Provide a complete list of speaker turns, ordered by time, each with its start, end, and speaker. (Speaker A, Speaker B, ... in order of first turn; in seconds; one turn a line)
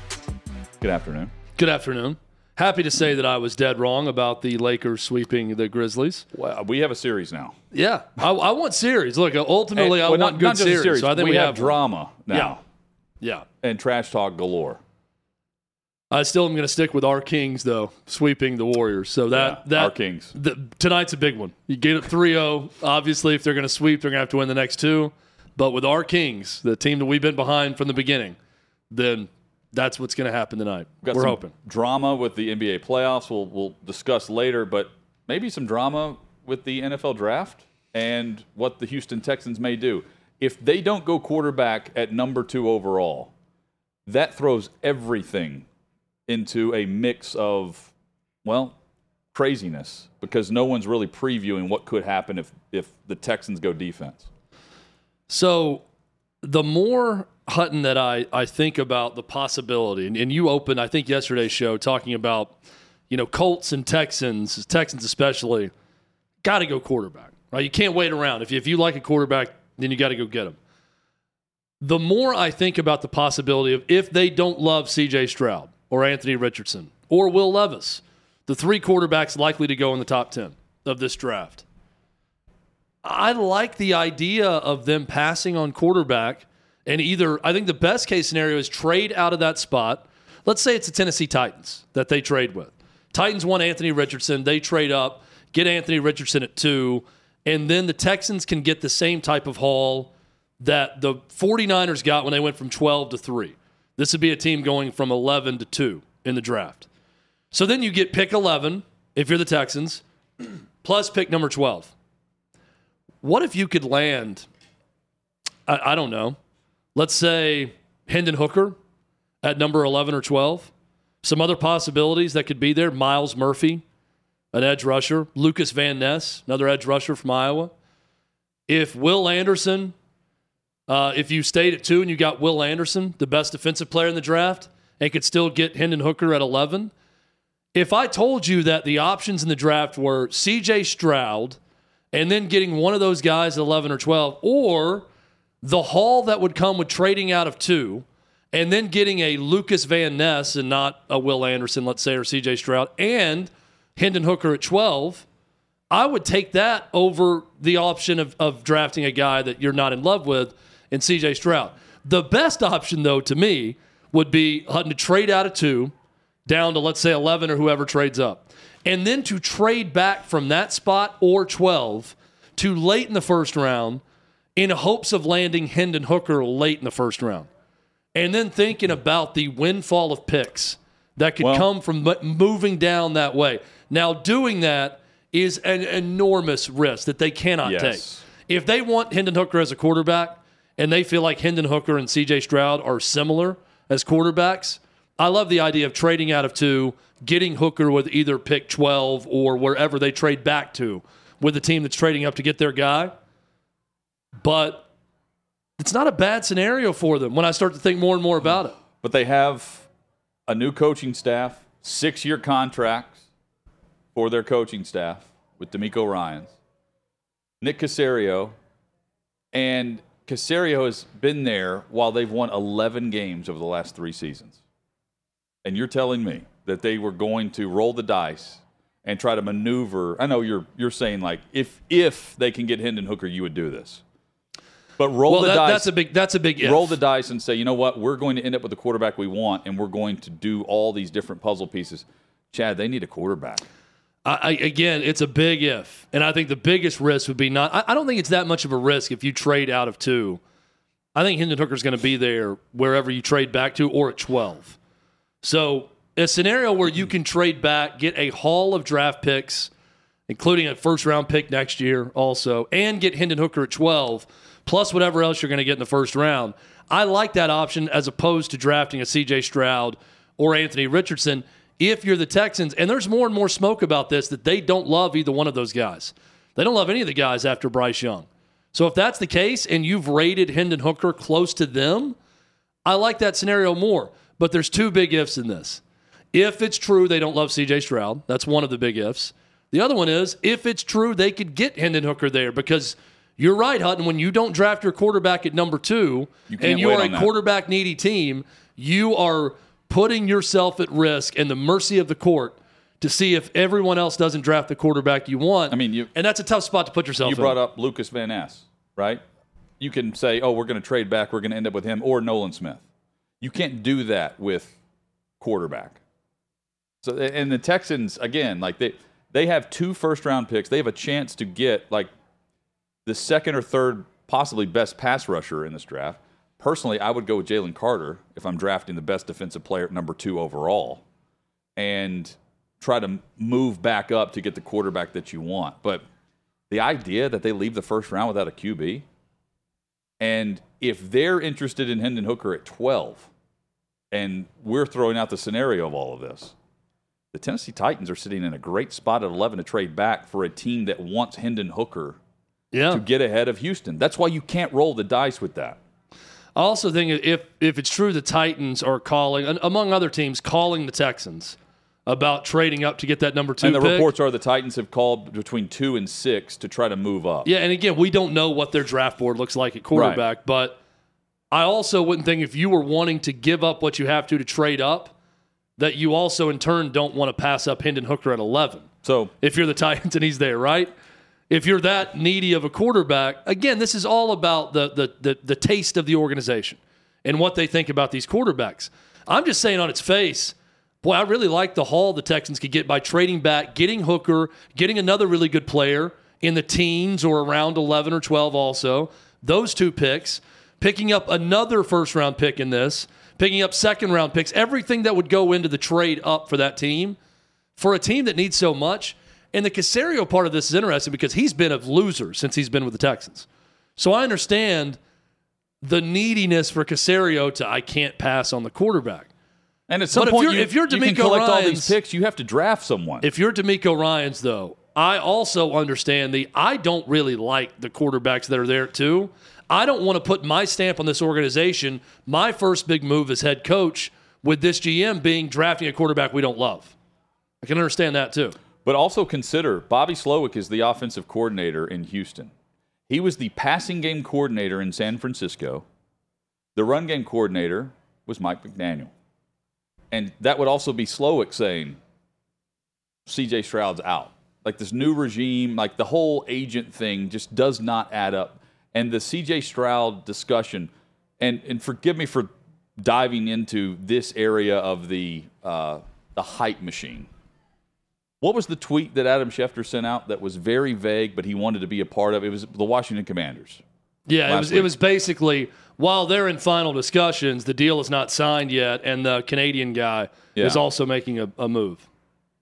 Speaker A: 0.8-1.3
Speaker B: 1.6-6.3
Speaker A: 6.3-7.6
Speaker B: 7.7-11.8
Speaker A: 9.8-12.6
Speaker B: 12.3-12.6
Speaker B: 13.2-13.5
Speaker A: 13.6-14.8
Speaker B: 16.1-28.4
Speaker A: 19.3-20.3
Speaker B: 28.9-31.5
Speaker A: 31.0-43.3
Speaker A: 44.1-45.7
Speaker A: 46.3-47.9
Speaker A: 48.4-48.7
Speaker A: 49.3-54.3
Speaker B: 55.3-55.9
Speaker B: 56.4-62.5
Speaker B: 63.1-65.7
Speaker B: 66.4-70.6
Speaker B: 71.8-81.7
Speaker B: 83.0-106.9
Speaker B: 107.5-110.0
Speaker B: 110.8-111.9
Speaker B: 113.2-114.5
Speaker B: 115.7-116.4
Speaker B: 117.0-118.8
Speaker B: 119.4-120.7
Speaker B: 121.2-123.8
Speaker B: 124.5-127.7
Speaker B: 128.7-129.9
Speaker B: 130.9-136.9
Speaker B: 137.7-141.6
Speaker B: 142.1-145.1
Speaker B: 145.6-155.3
Speaker B: 155.9-165.9
Speaker B: 166.5-174.0
Speaker B: 174.6-177.5
Speaker B: 178.2-203.2
Speaker A: 181.4-181.7
Speaker A: 187.6-188.2
Speaker B: 204.4-204.9
Speaker B: 205.8-208.8
Speaker A: 209.0-209.9
Speaker A: 210.5-213.2
Speaker A: 214.2-216.5
Speaker A: 217.6-218.6
Speaker A: 219.5-224.6
Speaker A: 225.7-234.0
Speaker A: 235.0-235.9
Speaker B: 235.3-236.9
Speaker A: 236.6-243.7
Speaker B: 244.2-250.4
Speaker B: 251.2-254.8
Speaker B: 255.4-259.7
Speaker B: 260.3-282.2
Speaker B: 282.9-285.8
Speaker B: 286.3-307.6
Speaker A: 296.5-297.3
Speaker A: 305.7-306.1
Speaker A: 307.2-309.2
Speaker A: 309.8-312.8
Speaker A: 313.4-314.7
Speaker A: 315.4-316.0
Speaker A: 317.0-322.1
Speaker A: 323.1-331.0
Speaker A: 331.8-336.0
Speaker A: 336.7-339.1
Speaker A: 340.2-343.3
Speaker A: 344.1-346.5
Speaker A: 347.3-352.2
Speaker B: 352.7-353.0
Speaker A: 352.9-355.8
Speaker B: 356.6-364.1
Speaker A: 363.6-367.5
Speaker B: 367.4-370.8
Speaker A: 369.9-370.2
Speaker B: 371.5-375.1
Speaker B: 375.8-378.9
Speaker A: 379.0-379.3
Speaker B: 379.4-380.9
Speaker B: 381.5-407.2
Speaker B: 407.8-415.0
Speaker B: 415.8-419.3
Speaker A: 419.9-423.3
Speaker B: 420.1-421.9
Speaker B: 423.2-436.9
Speaker B: 437.6-438.6
Speaker A: 438.9-442.5
Speaker A: 443.1-445.9
Speaker A: 446.8-449.1
Speaker A: 450.1-452.0
Speaker A: 453.3-467.3
Speaker A: 468.4-473.8
Speaker B: 474.3-482.1
Speaker A: 474.5-474.9
Speaker A: 480.6-480.8